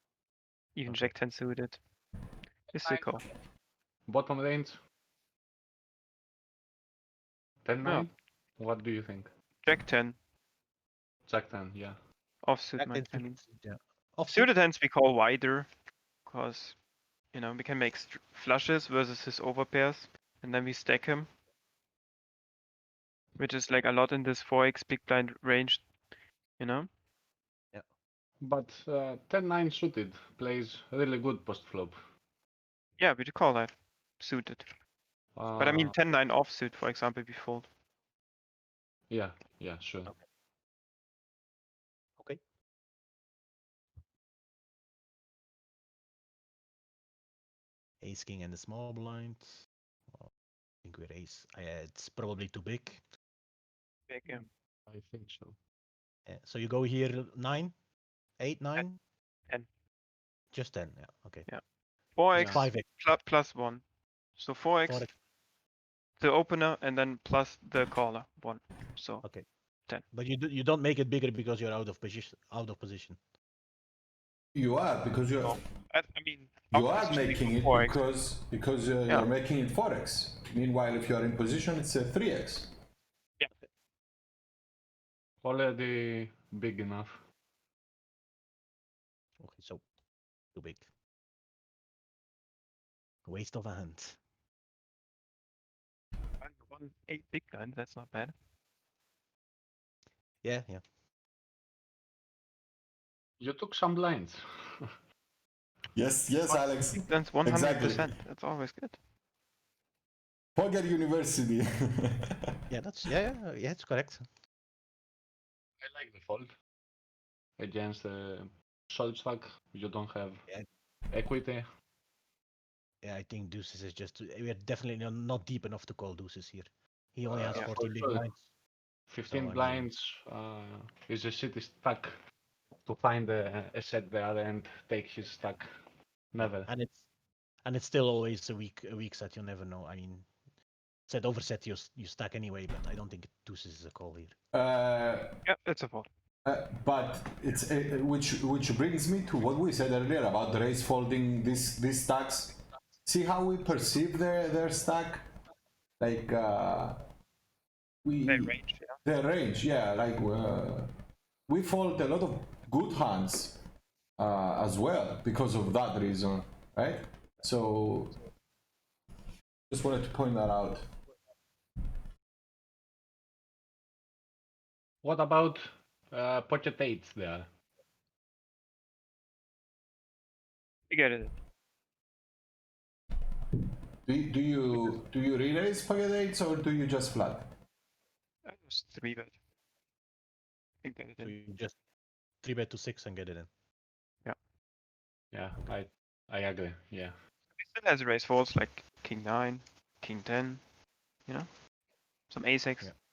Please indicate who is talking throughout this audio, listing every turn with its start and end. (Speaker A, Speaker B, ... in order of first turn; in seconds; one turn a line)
Speaker A: 0.8-1.8
Speaker A: 2.7-3.2
Speaker B: 4.1-4.8
Speaker B: 7.6-9.3
Speaker A: 7.8-8.1
Speaker A: 9.6-10.2
Speaker B: 11.3-12.0
Speaker A: 12.4-13.4
Speaker C: 12.8-14.5
Speaker A: 14.3-15.7
Speaker A: 16.3-16.8
Speaker A: 17.3-21.3
Speaker A: 23.4-25.9
Speaker A: 26.6-26.9
Speaker B: 28.4-32.0
Speaker A: 33.0-34.7
Speaker B: 35.4-35.9
Speaker A: 35.6-37.7
Speaker B: 39.1-40.1
Speaker C: 48.0-53.0
Speaker A: 54.1-54.5
Speaker B: 54.2-55.6
Speaker C: 56.3-57.8
Speaker C: 58.4-59.0
Speaker C: 60.5-61.5
Speaker A: 62.1-63.8
Speaker C: 62.3-62.9
Speaker B: 62.4-62.6
Speaker A: 64.3-65.1
Speaker C: 64.8-65.1
Speaker A: 66.2-69.2
Speaker C: 70.1-73.2
Speaker D: 74.5-75.6
Speaker A: 75.4-78.0
Speaker D: 76.7-82.7
Speaker B: 85.4-87.1
Speaker C: 89.4-89.9
Speaker C: 90.5-90.9
Speaker C: 93.3-94.2
Speaker A: 96.4-98.3
Speaker C: 100.4-100.8
Speaker B: 103.4-104.9
Speaker D: 105.9-108.1
Speaker A: 106.5-109.0
Speaker D: 110.6-112.3
Speaker C: 112.7-114.3
Speaker B: 115.8-116.5
Speaker B: 117.6-120.5
Speaker B: 121.1-121.6
Speaker C: 123.0-128.5
Speaker B: 127.3-128.3
Speaker B: 129.1-132.1
Speaker C: 129.3-129.9
Speaker B: 132.8-135.7
Speaker B: 136.3-136.7
Speaker C: 136.4-137.1
Speaker C: 137.7-140.3
Speaker C: 141.1-144.4
Speaker D: 144.5-145.3
Speaker A: 145.4-146.1
Speaker D: 146.4-155.3
Speaker D: 156.0-157.0
Speaker D: 158.0-160.9
Speaker A: 158.3-159.0
Speaker D: 161.5-163.6
Speaker D: 164.2-168.2
Speaker D: 169.7-170.9
Speaker B: 175.0-177.5
Speaker A: 180.9-181.3
Speaker D: 184.1-187.5
Speaker A: 188.4-189.3
Speaker A: 190.8-191.3
Speaker C: 191.2-191.8
Speaker C: 192.4-193.5
Speaker B: 195.3-197.2
Speaker A: 197.5-200.6
Speaker A: 202.3-202.9